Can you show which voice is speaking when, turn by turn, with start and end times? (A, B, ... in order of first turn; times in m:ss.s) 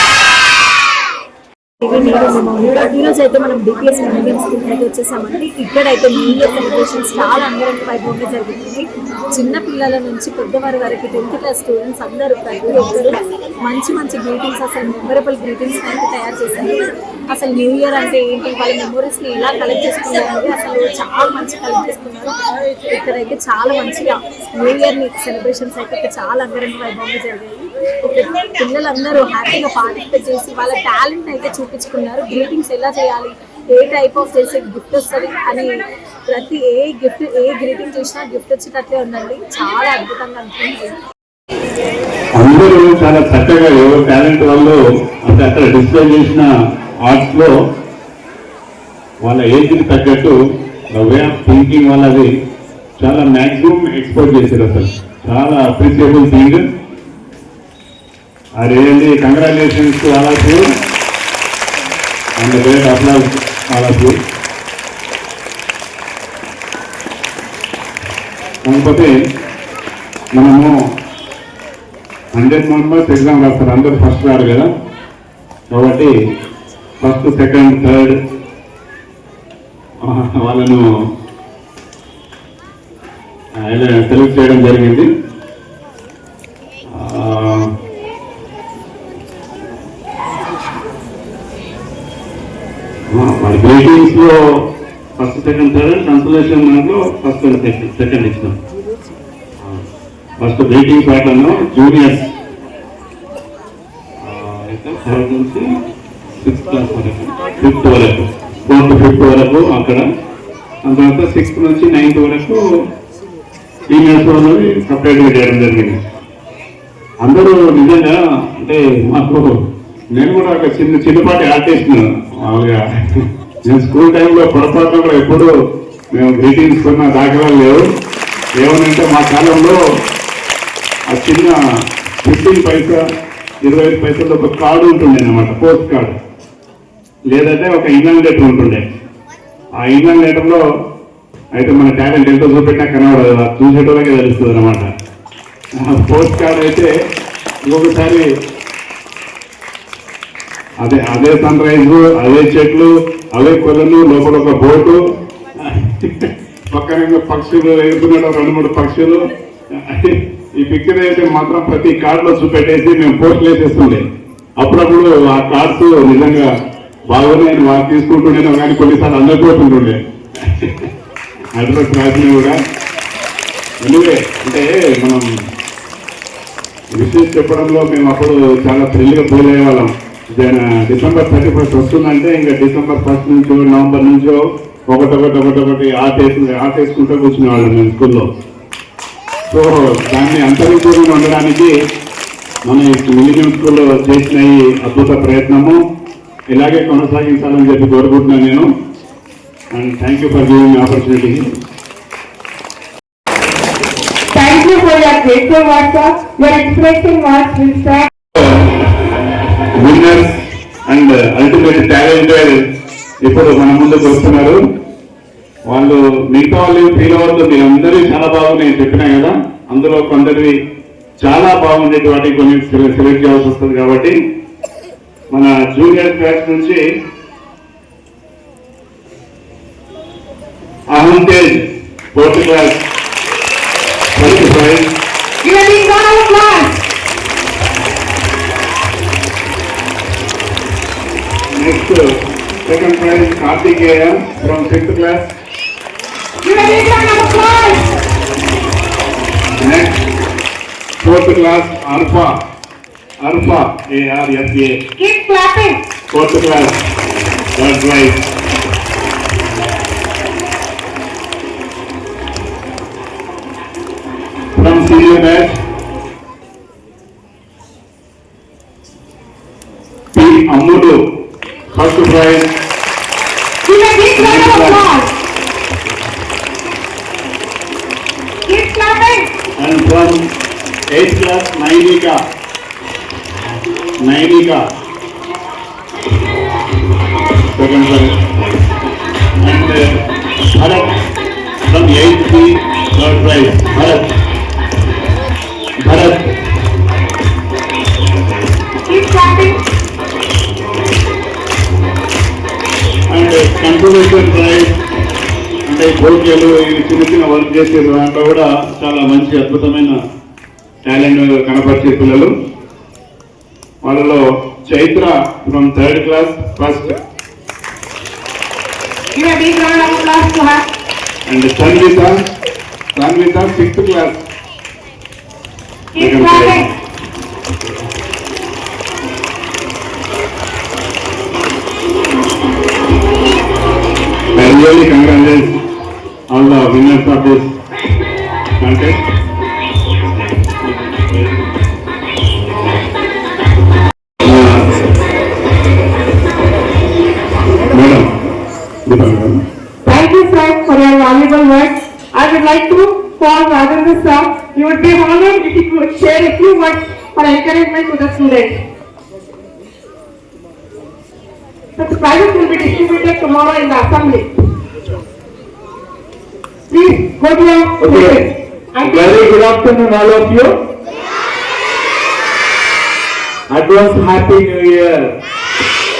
0:01.8-0:22.4 A
0:22.9-0:35.7 A
0:36.3-0:41.0 A
0:42.4-0:46.5 B
0:47.0-0:47.5 B
0:49.2-0:50.4 B
0:50.9-0:52.3 B
0:53.0-0:56.6 B
0:58.6-1:00.6 B
1:02.4-1:04.2 B
1:08.6-1:09.1 B
1:10.3-1:10.7 B
1:12.3-1:14.7 B
1:15.7-1:16.1 B
1:17.0-1:18.2 B
1:20.0-1:20.8 B
1:23.6-1:25.0 B
1:26.9-1:27.7 B
1:33.1-1:34.4 B
1:35.2-1:38.6 B
1:40.4-1:42.3 B
1:44.2-1:45.6 B
1:46.4-1:50.0 B
1:50.9-1:52.6 B
1:53.9-1:56.0 B
1:57.2-1:59.5 B
2:00.1-2:02.8 B
2:03.6-2:05.5 B
2:06.1-2:07.8 B
2:08.6-2:09.8 B
2:11.1-2:11.6 B
2:12.2-2:13.0 B
2:13.6-2:16.2 B
2:17.3-2:18.8 B
2:19.8-2:20.6 B
2:21.6-2:24.9 B
2:25.8-2:26.9 B
2:27.6-2:28.3 B
2:30.8-2:35.0 B
2:35.6-2:39.2 B
2:39.9-2:44.0 B
2:44.6-2:46.5 B
2:47.1-2:50.9 B
2:51.6-2:52.6 B
2:53.8-2:55.2 B
2:57.0-3:04.4 B
3:04.9-3:08.2 B
3:09.5-3:11.7 B
3:12.7-3:15.8 B
3:16.5-3:18.7 B
3:19.8-3:21.5 B
3:24.3-3:28.1 C
3:29.8-3:32.6 B
3:33.2-3:34.6 B
3:35.7-3:40.5 B
3:41.2-3:44.1 B
3:45.3-3:46.8 B
3:50.9-3:51.6 B
3:52.2-3:52.8 B
3:54.2-3:54.9 B
3:55.4-3:56.8 C
4:01.6-4:02.0 B
4:02.7-4:05.2 B
4:06.4-4:07.8 C
4:09.6-4:10.0 B
4:11.0-4:12.3 B
4:13.2-4:14.8 B
4:15.0-4:15.8 C
4:16.1-4:16.8 B
4:17.5-4:18.2 B
4:24.5-4:25.5 B
4:30.1-4:30.9 B
4:31.7-4:32.4 B
4:33.6-4:35.0 C
4:34.1-4:34.8 B
4:38.5-4:39.3 C
4:39.6-4:40.2 B
4:40.9-4:42.1 B
4:44.0-4:44.6 B
4:47.5-4:48.2 B
4:49.4-4:49.8 B
4:50.5-4:50.9 B
4:51.7-4:54.1 B
4:55.8-4:56.3 B
4:58.9-4:59.6 C
5:03.1-5:04.7 B
5:05.7-5:09.9 B
5:10.8-5:12.3 B
5:13.8-5:17.0 B
5:19.2-5:20.6 C
5:21.3-5:22.1 B
5:22.9-5:24.1 B
5:25.9-5:26.6 C
5:26.0-5:26.7 B
5:34.3-5:35.5 B
5:36.3-5:37.6 B
5:38.6-5:39.0 B
5:44.2-5:44.6 B
5:47.7-5:48.1 B
5:48.9-5:49.4 B
5:49.8-5:58.6 C
6:01.8-6:04.3 C
6:06.7-6:09.2 C
6:07.8-6:08.2 D
6:08.8-6:10.5 D
6:13.5-6:15.1 D